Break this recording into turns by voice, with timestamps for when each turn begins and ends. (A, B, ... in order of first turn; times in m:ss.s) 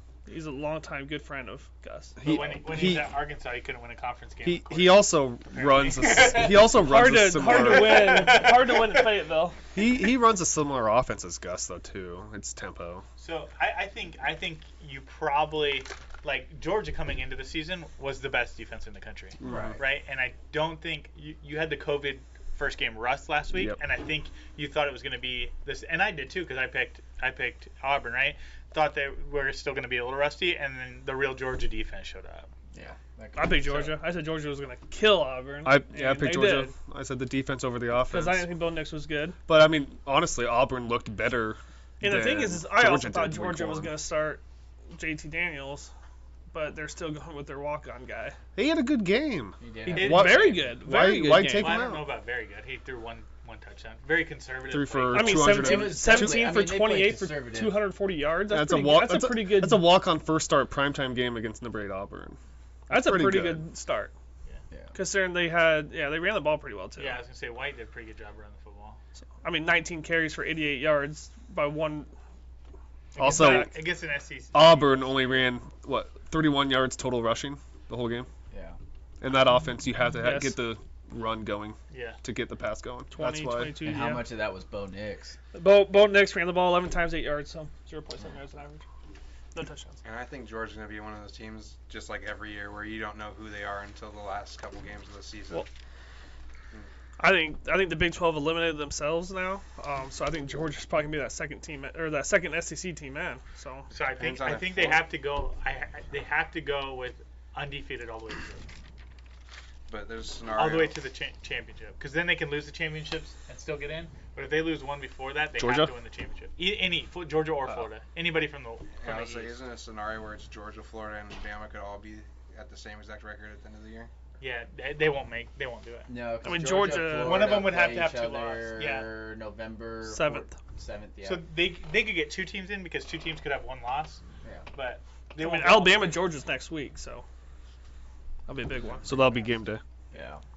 0:00.2-0:02.2 A
0:02.2-0:03.1 B
0:02.2-0:06.7 C
0:04.4-0:08.3 B
0:06.8-0:09.6 A
0:07.4-0:09.2 C
0:09.7-0:13.0 B
0:13.2-0:32.5 C
0:19.4-0:19.8 B
0:19.4-0:19.8 D
0:23.5-0:23.8 B
0:32.7-0:34.0 D
0:33.4-0:36.7 A
0:35.6-0:38.5 B
0:38.1-0:39.4 A
0:39.5-0:44.0 B
0:42.0-0:44.4 A
0:44.9-0:45.9 A
0:46.5-0:48.4 A
0:48.6-0:52.1 B
0:49.6-0:50.3 D
0:49.8-0:50.6 C
0:50.1-0:51.8 A
0:51.5-0:55.6 C
0:54.7-0:56.5 B
0:55.1-0:59.9 A
0:55.5-0:57.8 D
0:58.5-1:02.4 B
1:02.9-1:03.6 B
1:02.9-1:04.1 A
1:04.9-1:07.2 A
1:07.0-1:09.0 C
1:09.4-1:12.1 A
1:13.2-1:15.1 C
1:13.2-1:13.7 B
1:13.3-1:13.7 A
1:14.5-1:18.3 B
1:18.5-1:18.8 D
1:19.2-1:24.0 B
1:20.2-1:20.6 A
1:21.9-1:22.2 C
1:23.1-1:24.3 A
1:23.8-1:25.4 D
1:25.5-1:28.8 A
1:29.5-1:30.0 A
1:30.0-1:35.7 E
1:37.2-1:43.9 A
1:43.9-1:48.7 C
1:44.1-1:45.1 E
1:49.9-1:51.0 E
1:50.5-1:59.6 C
1:55.6-1:55.9 B
1:59.0-2:04.1 E
2:04.4-2:06.1 C
2:06.1-2:11.4 D
2:06.4-2:07.6 A
2:07.2-2:09.1 C
2:10.0-2:10.5 A
2:11.2-2:14.2 C
2:14.7-2:16.3 C
2:15.4-2:17.2 A
2:18.5-2:19.3 A
2:18.8-2:19.5 C
2:19.0-2:19.8 B
2:20.1-2:20.4 D